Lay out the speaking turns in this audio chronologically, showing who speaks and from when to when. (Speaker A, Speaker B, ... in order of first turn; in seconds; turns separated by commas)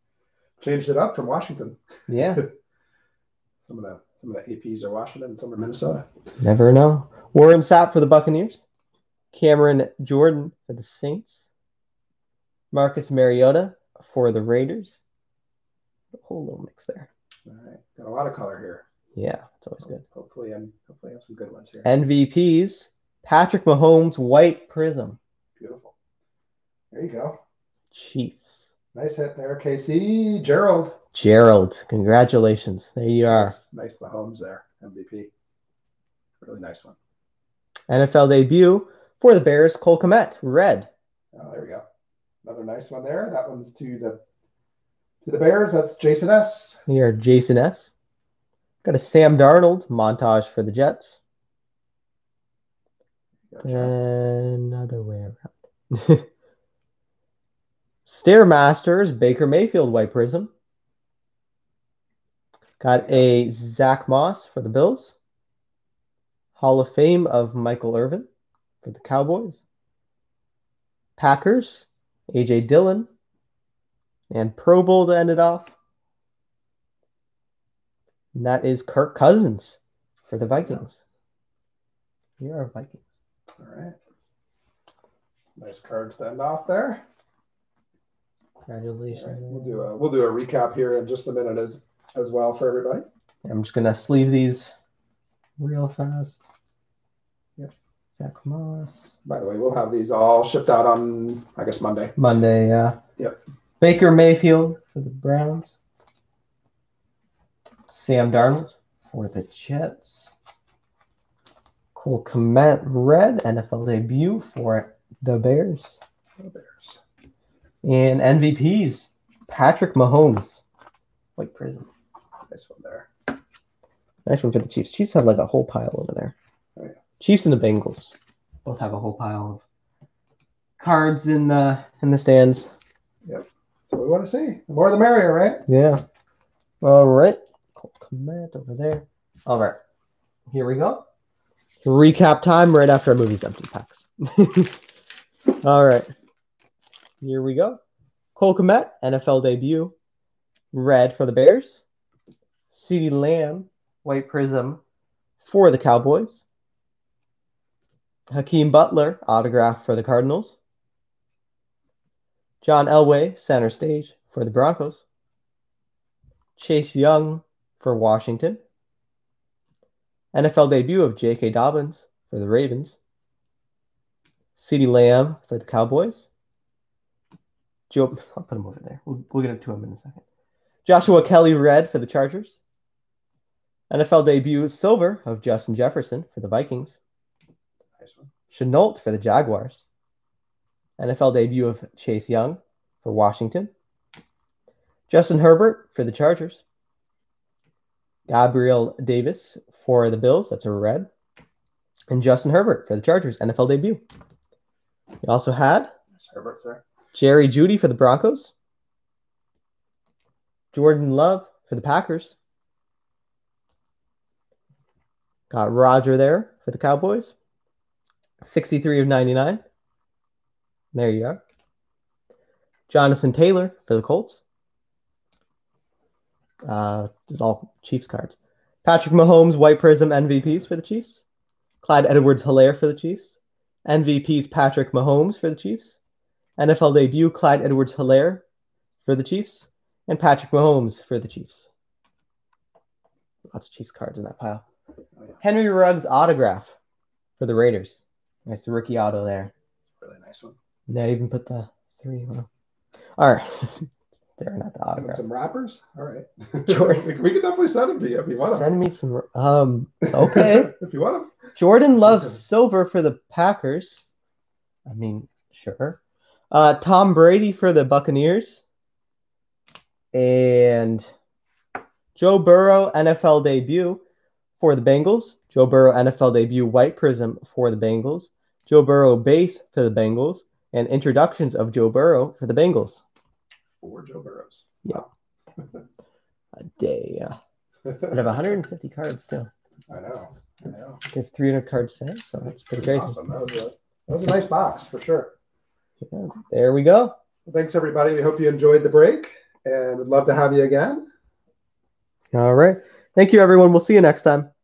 Speaker A: 0.6-2.5, Speaker B: 2.1-2.4, Speaker A: 3.6-6.1, Speaker B: 6.4-8.6, Speaker B: 9.3-11.5, Speaker B: 12.7-15.0, Speaker B: 16.2-17.1, Speaker A: 17.4-18.9, Speaker B: 19.1-20.0, Speaker A: 19.8-21.9, Speaker B: 21.8-25.2, Speaker A: 25.6-25.9, Speaker A: 26.9-27.4, Speaker B: 27.9-28.7, Speaker A: 28.9-31.0, Speaker B: 31.1-33.5, Speaker A: 33.3-35.3, Speaker A: 36.4-37.0, Speaker B: 37.9-40.9, Speaker A: 41.3-41.8, Speaker A: 42.4-44.2, Speaker A: 45.2-46.8, Speaker B: 46.9-47.9, Speaker B: 48.8-51.2, Speaker A: 53.5-54.1, Speaker B: 53.6-56.2, Speaker B: 58.1-60.5, Speaker B: 62.8-65.2, Speaker A: 63.0-63.3, Speaker B: 66.6-68.3, Speaker B: 68.8-69.6, Speaker B: 71.2-73.1, Speaker B: 74.3-75.7, Speaker B: 78.3-79.8, Speaker B: 80.3-81.0, Speaker B: 82.4-83.0, Speaker A: 83.6-84.0, Speaker A: 85.6-87.0, Speaker B: 88.7-89.9, Speaker A: 89.1-93.0, Speaker B: 93.4-94.7, Speaker B: 95.6-96.4, Speaker B: 98.2-99.1, Speaker A: 99.2-102.1, Speaker B: 102.2-103.0, Speaker B: 103.8-105.8, Speaker B: 107.9-110.3, Speaker B: 111.9-116.0, Speaker A: 116.4-117.0, Speaker B: 117.8-120.6, Speaker B: 121.4-121.9, Speaker A: 122.5-123.1, Speaker B: 124.2-126.3, Speaker B: 127.2-129.6, Speaker B: 130.8-132.7, Speaker A: 133.2-135.6, Speaker B: 135.7-136.0, Speaker B: 136.8-139.8, Speaker B: 140.5-141.1, Speaker B: 141.8-144.8, Speaker B: 145.6-146.1, Speaker B: 147.2-147.8, Speaker B: 148.4-149.9, Speaker B: 150.7-151.8, Speaker B: 152.7-154.8, Speaker B: 155.4-156.4, Speaker B: 158.3-160.6, Speaker B: 162.6-165.0, Speaker B: 166.6-168.6, Speaker B: 170.3-173.0, Speaker B: 174.6-176.3, Speaker B: 177.9-180.2, Speaker B: 180.8-182.6, Speaker B: 183.9-187.0, Speaker A: 188.0-188.3, Speaker B: 188.5-189.8, Speaker B: 191.0-193.7, Speaker B: 195.1-196.6, Speaker B: 198.3-201.1, Speaker B: 202.1-204.0, Speaker B: 205.2-205.9, Speaker A: 206.1-206.8, Speaker B: 207.1-208.5, Speaker B: 210.7-212.4, Speaker B: 215.5-217.3, Speaker B: 218.4-219.6, Speaker B: 220.9-221.4, Speaker B: 222.9-224.4, Speaker B: 226.6-231.2, Speaker B: 231.8-236.0, Speaker B: 236.6-238.4, Speaker B: 239.1-241.7, Speaker B: 243.5-244.6, Speaker B: 245.4-246.8, Speaker B: 247.4-249.5, Speaker A: 250.0-250.6, Speaker B: 250.9-252.5, Speaker B: 253.2-255.2, Speaker A: 255.0-258.7, Speaker B: 256.6-257.1, Speaker B: 258.4-260.7, Speaker A: 260.1-261.4, Speaker B: 261.6-264.0, Speaker B: 264.9-266.0, Speaker B: 266.5-268.6, Speaker B: 270.1-271.1, Speaker B: 272.1-274.0, Speaker B: 274.6-283.0, Speaker A: 283.8-285.8, Speaker B: 286.6-287.4, Speaker A: 287.8-288.3, Speaker B: 288.0-289.5, Speaker A: 289.9-291.0, Speaker B: 291.1-293.2, Speaker A: 292.7-295.3, Speaker B: 296.0-297.1, Speaker A: 297.4-301.1, Speaker B: 302.3-304.5